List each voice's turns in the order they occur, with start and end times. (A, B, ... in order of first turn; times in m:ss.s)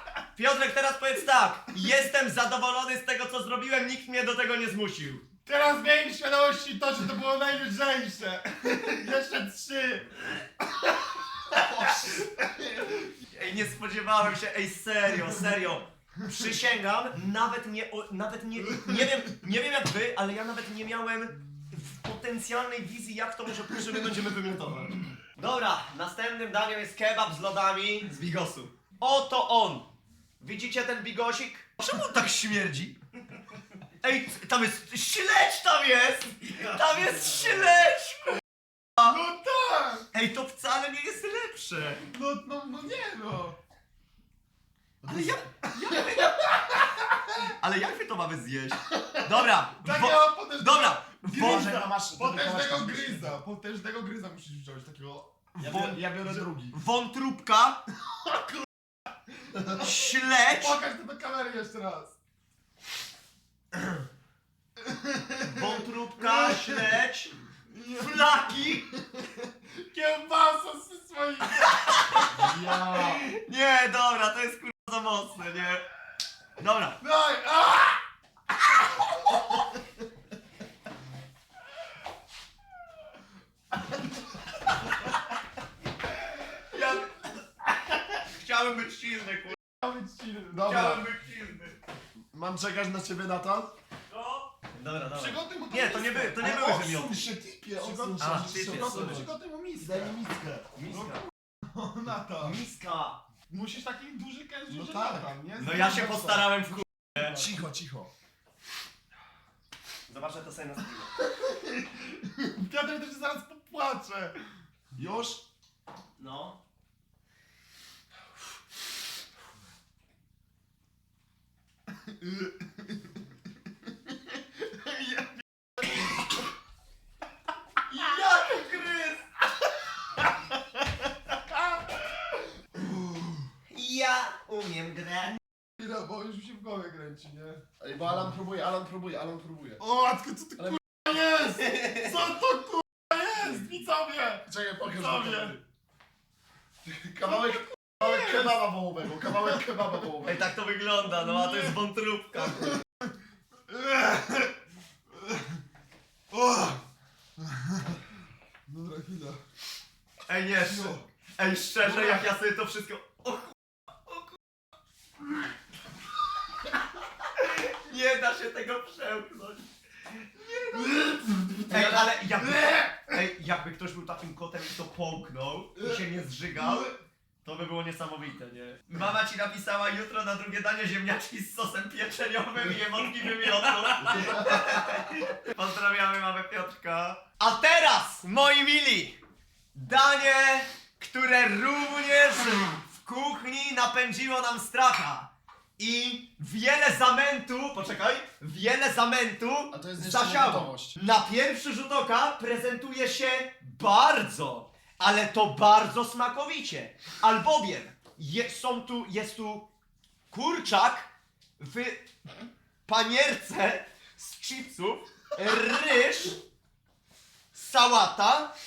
0:00.3-0:05.2 A
0:05.4-0:10.4 B
0:11.5-0:12.3 A
0:13.3-0:29.9 A
0:30.4-0:33.0 A
0:34.0-0:38.4 A
0:39.0-0:40.0 B
0:40.1-0:42.0 A
0:42.1-0:43.6 B
0:45.0-0:46.8 A
0:45.0-0:45.3 C
0:45.9-0:46.2 B
0:47.4-0:51.9 A
0:49.8-0:55.3 B
0:51.3-0:53.4 C
0:55.5-0:56.8 C
0:55.6-0:57.8 A
0:58.3-0:58.6 B
0:59.7-1:00.8 A
1:00.4-1:02.1 B
1:04.8-1:05.6 B
1:05.4-1:07.3 A
1:06.2-1:06.8 B
1:07.7-1:08.2 B
1:08.0-1:08.9 A
1:09.7-1:12.6 B
1:11.6-1:15.8 A
1:12.3-1:13.2 C
1:16.6-1:17.0 A
1:17.0-1:18.0 B
1:26.7-1:27.4 A
1:28.1-1:29.6 A
1:29.7-1:31.1 B
1:30.5-1:31.8 A
1:32.3-1:33.7 C
1:34.1-1:37.2 A
1:35.1-1:36.4 B
1:36.4-1:40.7 C
1:37.8-1:40.1 B
1:38.2-1:39.2 A
1:40.7-1:41.2 A
1:41.6-1:42.6 B
1:42.4-1:43.2 A
1:43.5-1:46.4 B
1:44.7-1:46.4 C
1:45.6-1:47.4 A
1:47.2-1:48.1 C
1:50.1-1:51.1 A
1:52.4-1:54.4 B
1:54.9-1:55.4 C
1:56.2-1:56.6 A
2:07.9-2:09.3 A
2:13.7-2:15.4 A
2:15.8-2:17.6 B
2:17.8-2:19.8 C
2:19.8-2:25.6 B
2:21.6-2:22.1 A
2:24.4-2:25.6 C
2:26.8-2:30.5 C
2:27.5-2:28.5 B
2:30.2-2:32.8 A
2:31.2-2:31.7 B
2:33.7-2:34.5 B
2:36.3-2:36.8 B
2:37.4-2:38.0 B
2:38.7-2:39.4 B
2:40.3-2:44.4 A
2:40.6-2:41.1 B
2:47.4-2:49.7 A
2:50.7-2:51.8 B
2:51.7-2:56.9 A
2:57.4-3:09.2 A
3:09.7-3:29.7 A
3:19.7-3:21.0 C
3:30.3-3:32.1 A
3:32.8-3:36.4 A
3:37.5-3:38.5 A